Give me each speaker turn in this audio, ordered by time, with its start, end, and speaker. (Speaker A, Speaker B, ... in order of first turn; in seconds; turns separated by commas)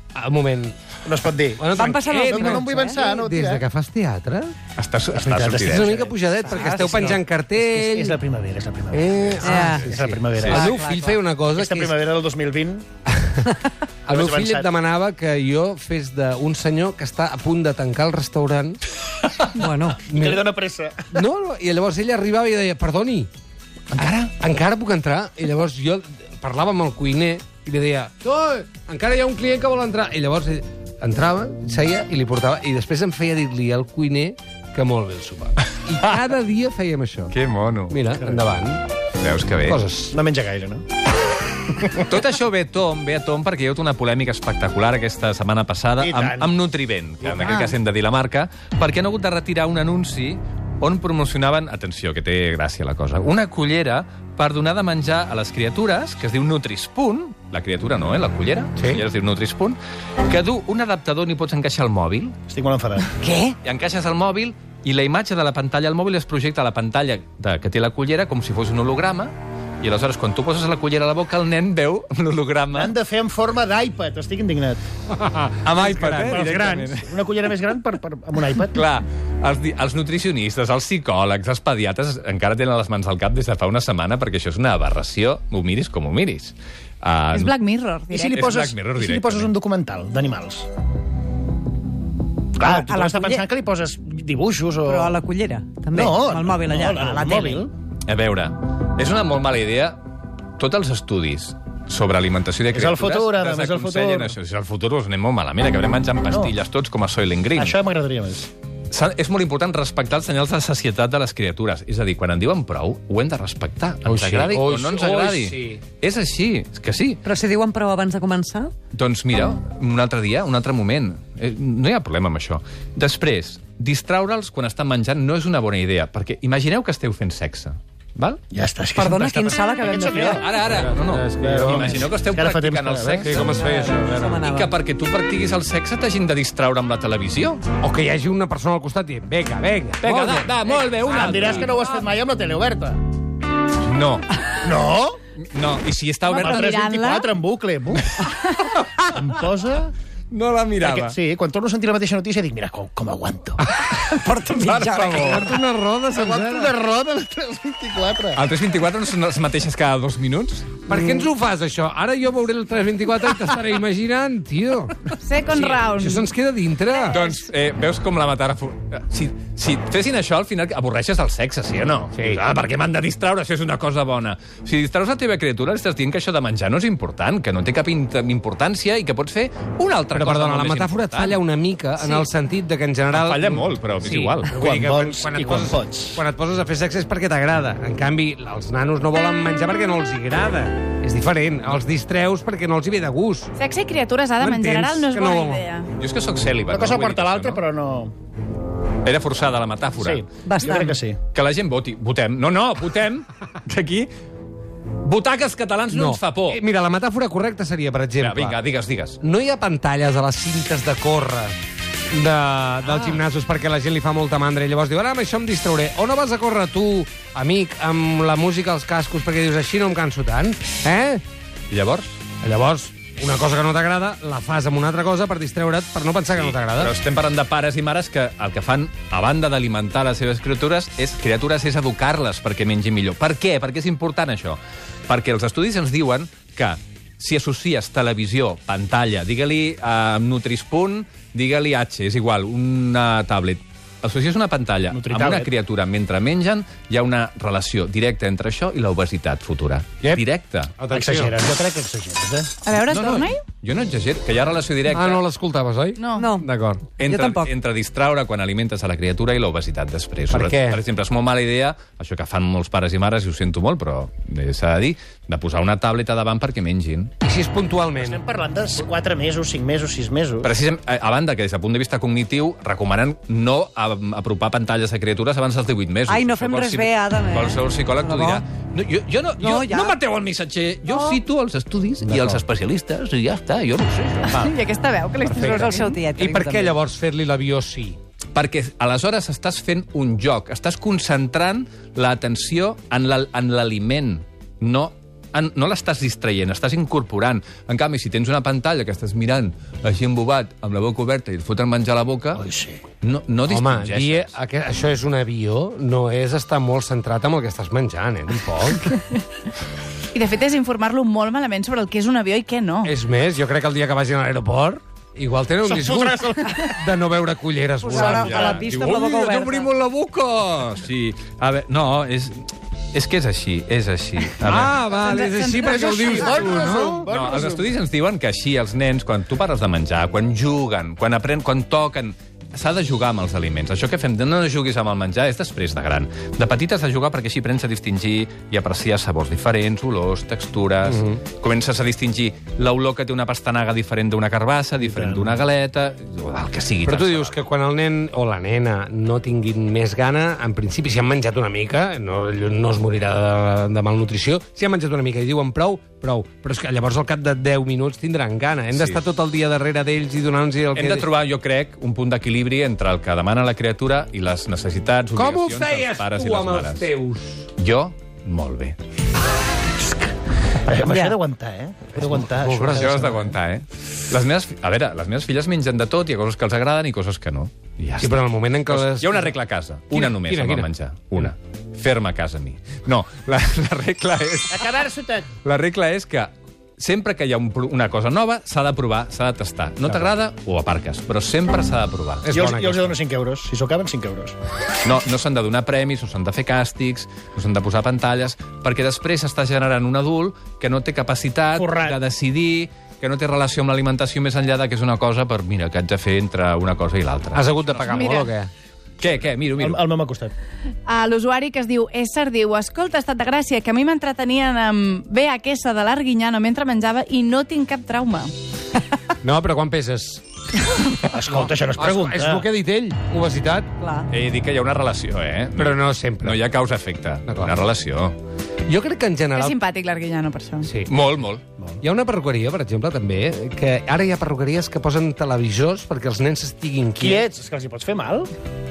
Speaker A: 0.1-0.8, Speaker B: 1.1-3.6, Speaker A: 1.6-4.5, Speaker C: 1.7-3.0, Speaker D: 4.8-6.0, Speaker B: 5.1-6.2, Speaker A: 5.7-8.2, Speaker C: 6.3-7.2, Speaker B: 7.6-10.8, Speaker A: 8.9-12.0, Speaker C: 9.4-9.9, Speaker D: 10.3-10.8, Speaker C: 10.5-11.2, Speaker B: 11.5-12.8, Speaker A: 14.1-18.8, Speaker B: 14.1-14.7, Speaker C: 19.6-20.1, Speaker A: 20.1-20.4, Speaker B: 20.1-21.2, Speaker A: 21.1-23.3, Speaker D: 23.9-24.3, Speaker A: 24.4-37.3, Speaker D: 37.3-38.0, Speaker A: 37.9-38.9, Speaker D: 39.2-39.8, Speaker A: 39.6-40.2, Speaker B: 40.1-40.8, Speaker D: 42.0-62.4, Speaker B: 46.0-46.5, Speaker E: 47.4-47.7, Speaker A: 58.8-59.0, Speaker B: 62.5-63.1, Speaker C: 63.2-63.6, Speaker D: 63.6-73.0, Speaker B: 72.7-74.8, Speaker A: 75.2-76.8, Speaker D: 75.7-77.2, Speaker B: 76.2-78.8, Speaker D: 78.7-87.5, Speaker E: 87.3-88.5, Speaker B: 88.1-90.7, Speaker D: 88.3-89.5, Speaker B: 92.6-95.2, Speaker C: 92.6-93.4, Speaker C: 94.8-97.7, Speaker B: 95.9-97.7, Speaker D: 98.1-100.0, Speaker D: 100.6-107.8, Speaker B: 102.7-104.3, Speaker B: 106.3-106.5, Speaker B: 107.6-108.5, Speaker D: 108.9-117.2, Speaker A: 114.0-115.8, Speaker C: 117.2-118.7, Speaker D: 118.9-128.4, Speaker B: 128.5-130.5, Speaker C: 128.9-130.6, Speaker D: 130.3-133.5, Speaker A: 130.7-132.1, Speaker B: 131.4-133.3, Speaker A: 133.2-134.4, Speaker C: 133.3-134.7, Speaker D: 134.4-137.6, Speaker A: 137.8-140.6, Speaker D: 140.0-141.8, Speaker B: 141.1-143.0, Speaker D: 143.8-144.3, Speaker B: 144.6-145.2, Speaker D: 145.4-146.8, Speaker E: 146.3-147.3, Speaker B: 146.3-148.2, Speaker E: 148.3-148.8, Speaker B: 149.0-149.9, Speaker D: 150.3-151.2, Speaker B: 150.8-153.6, Speaker C: 154.0-155.4, Speaker D: 154.1-155.6, Speaker A: 155.2-156.8, Speaker B: 156.2-158.4, Speaker D: 158.3-160.8, Speaker A: 160.9-167.2, Speaker E: 165.2-166.3, Speaker D: 167.1-181.4, Speaker A: 172.2-172.4, Speaker A: 180.1-193.5, Speaker D: 183.1-184.6, Speaker B: 184.5-186.2, Speaker E: 193.6-195.9, Speaker A: 194.4-195.7, Speaker D: 196.0-197.7, Speaker B: 196.7-198.1, Speaker D: 199.1-200.2, Speaker B: 200.0-201.2, Speaker C: 200.4-201.0, Speaker D: 201.3-204.1, Speaker D: 205.0-206.6, Speaker A: 205.9-208.6, Speaker D: 208.2-209.2, Speaker A: 209.2-211.6, Speaker A: 212.1-221.2, Speaker D: 221.7-222.2, Speaker A: 222.4-226.9, Speaker D: 226.3-250.7, Speaker B: 244.9-245.5, Speaker A: 250.8-251.4, Speaker B: 250.9-252.5, Speaker E: 252.6-253.4, Speaker D: 252.9-255.2, Speaker A: 254.9-256.8, Speaker E: 256.0-256.3, Speaker C: 256.1-256.5, Speaker C: 257.0-257.5, Speaker D: 257.0-267.1, Speaker A: 260.3-260.8, Speaker A: 267.2-268.2, Speaker B: 268.0-270.5, Speaker D: 270.4-284.5, Speaker C: 276.1-278.4, Speaker C: 279.4-280.0, Speaker C: 280.9-281.2, Speaker A: 282.0-282.4, Speaker E: 284.2-286.0, Speaker A: 285.2-288.0, Speaker C: 285.4-286.8, Speaker D: 288.4-302.4, Speaker B: 302.4-302.8, Speaker D: 303.0-304.3, Speaker A: 303.5-308.9, Speaker E: 310.1-312.9, Speaker A: 312.8-318.5, Speaker B: 315.6-316.8, Speaker C: 317.8-319.7, Speaker D: 317.9-324.8, Speaker B: 318.0-318.9, Speaker A: 324.4-327.1, Speaker E: 325.0-326.7, Speaker B: 325.6-327.7, Speaker D: 327.1-347.4, Speaker A: 340.8-341.2, Speaker A: 346.8-361.1, Speaker D: 358.7-359.1, Speaker D: 360.8-366.9, Speaker A: 365.1-367.5, Speaker D: 367.6-368.8, Speaker B: 370.6-373.3, Speaker C: 370.8-371.2, Speaker A: 372.0-373.2, Speaker D: 372.7-384.7, Speaker A: 378.0-379.3, Speaker A: 379.9-380.7, Speaker B: 384.5-385.3, Speaker D: 385.3-392.3, Speaker A: 392.2-393.0, Speaker B: 392.3-394.4, Speaker D: 394.8-407.5, Speaker B: 401.6-402.0, Speaker A: 407.3-408.5, Speaker E: 407.9-408.3, Speaker D: 409.0-409.9, Speaker B: 409.6-410.3, Speaker E: 410.9-418.3, Speaker A: 419.2-420.2, Speaker B: 421.0-422.4, Speaker A: 421.3-423.7, Speaker C: 423.8-424.1, Speaker D: 424.1-428.2, Speaker A: 425.6-426.5, Speaker A: 427.3-427.6, Speaker A: 428.7-429.6, Speaker E: 429.4-430.7, Speaker A: 430.6-430.9, Speaker D: 430.9-431.4, Speaker A: 431.8-437.3, Speaker B: 437.0-438.3